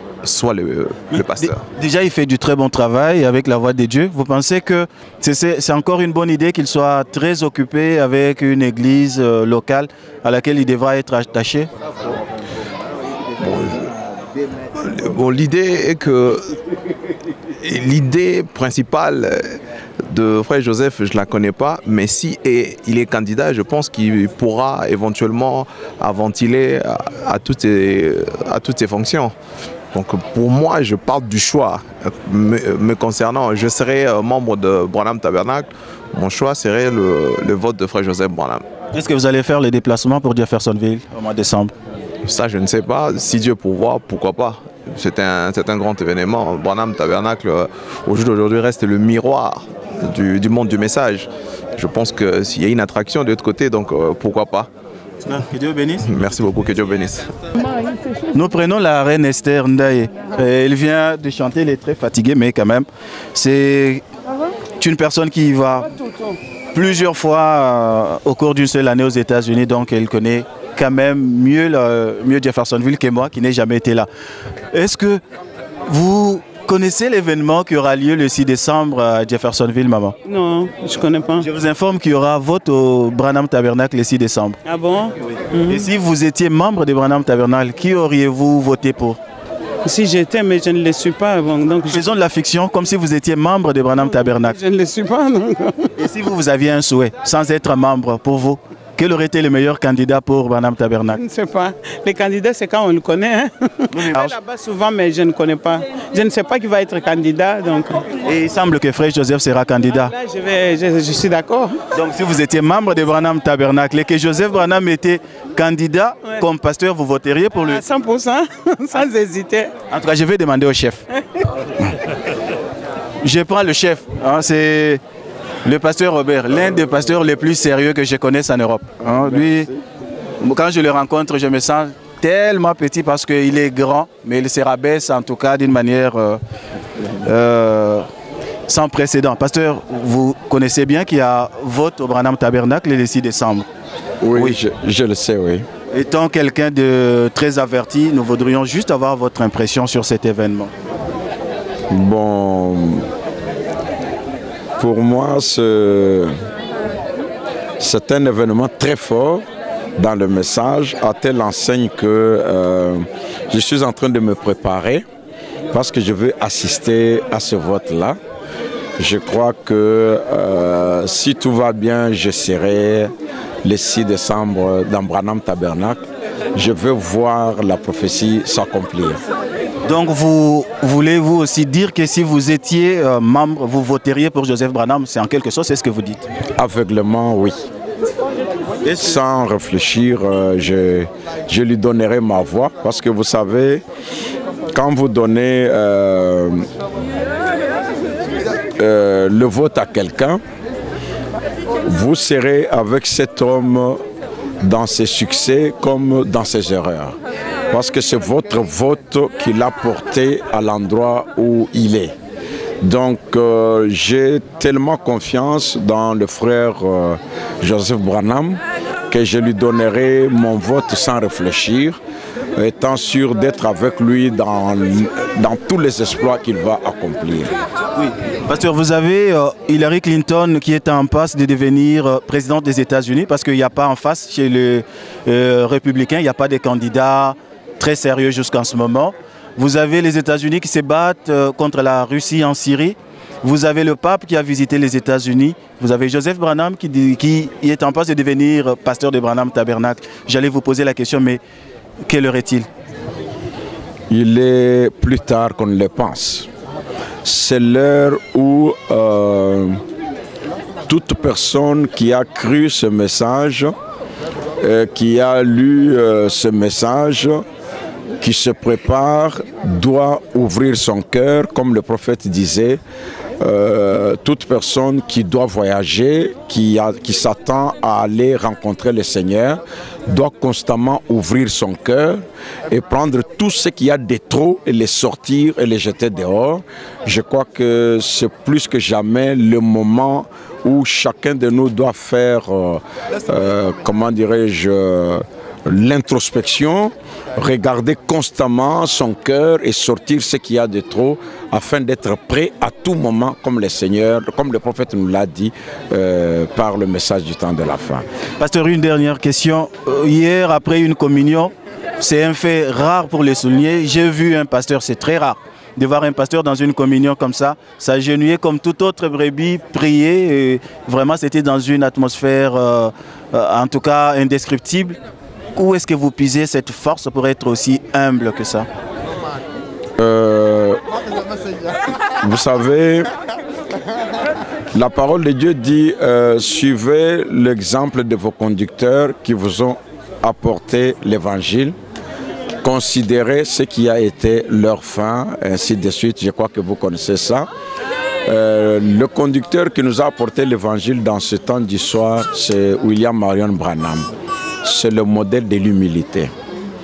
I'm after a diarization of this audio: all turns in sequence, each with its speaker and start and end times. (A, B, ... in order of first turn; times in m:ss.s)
0:00.2-0:01.6 A
0:01.1-0:11.7 B
0:13.4-0:13.9 A
0:14.8-0:16.6 A
0:17.6-0:29.4 A
0:29.9-0:38.6 A
0:38.9-0:41.7 B
0:42.3-0:54.7 A
0:55.2-0:56.0 B
0:56.0-0:57.3 A
0:58.3-1:04.0 B
1:04.8-1:05.9 B
1:06.7-1:14.1 B
1:14.7-1:15.2 B
1:15.9-1:20.2 B
1:20.3-1:21.4 C
1:21.4-1:24.6 B
1:24.6-1:25.9 C
1:25.7-1:29.2 B
1:29.8-1:32.0 C
1:31.9-1:34.6 B
1:34.4-1:35.9 C
1:36.0-1:41.2 B
1:41.1-1:48.1 C
1:43.9-1:44.3 B
1:48.2-1:50.1 B
1:50.1-1:51.8 C
1:51.9-1:57.8 B
1:57.6-1:59.7 C
1:59.9-2:01.0 B
2:03.2-2:05.0 B
2:05.6-2:09.7 B
2:10.4-2:16.4 B
2:17.2-2:18.1 B
2:18.7-2:23.7 B
2:24.2-2:25.7 D
2:25.9-2:30.7 B
2:31.9-2:33.1 D
2:34.8-2:36.3 D
2:37.8-2:39.4 D
2:40.0-2:45.0 D
2:45.7-2:48.2 D
2:49.0-2:53.1 D
2:53.6-2:56.0 D
2:56.6-2:59.2 D
2:59.8-3:06.2 B
3:06.6-3:07.6 D
3:08.9-3:13.8 D
3:14.7-3:16.7 D
3:18.8-3:20.4 D
3:21.9-3:24.0 D
3:24.6-3:27.2 D
3:27.7-3:32.1 D
3:32.8-3:42.0 D
3:42.6-3:47.5 D
3:48.0-4:11.4 B
4:12.1-4:12.7 B
4:14.1-4:16.5 D
4:17.2-4:19.8 D
4:20.9-4:23.8 D
4:24.6-4:27.4 D
4:28.2-4:32.8 D
4:33.4-5:08.0 D
5:08.4-5:25.0 B
5:25.6-5:28.7 B
5:30.0-5:30.8 D
5:32.2-5:33.1 D
5:34.7-5:41.8 D
5:42.6-5:47.5 D
5:48.3-5:54.1 D
5:54.6-5:56.3 D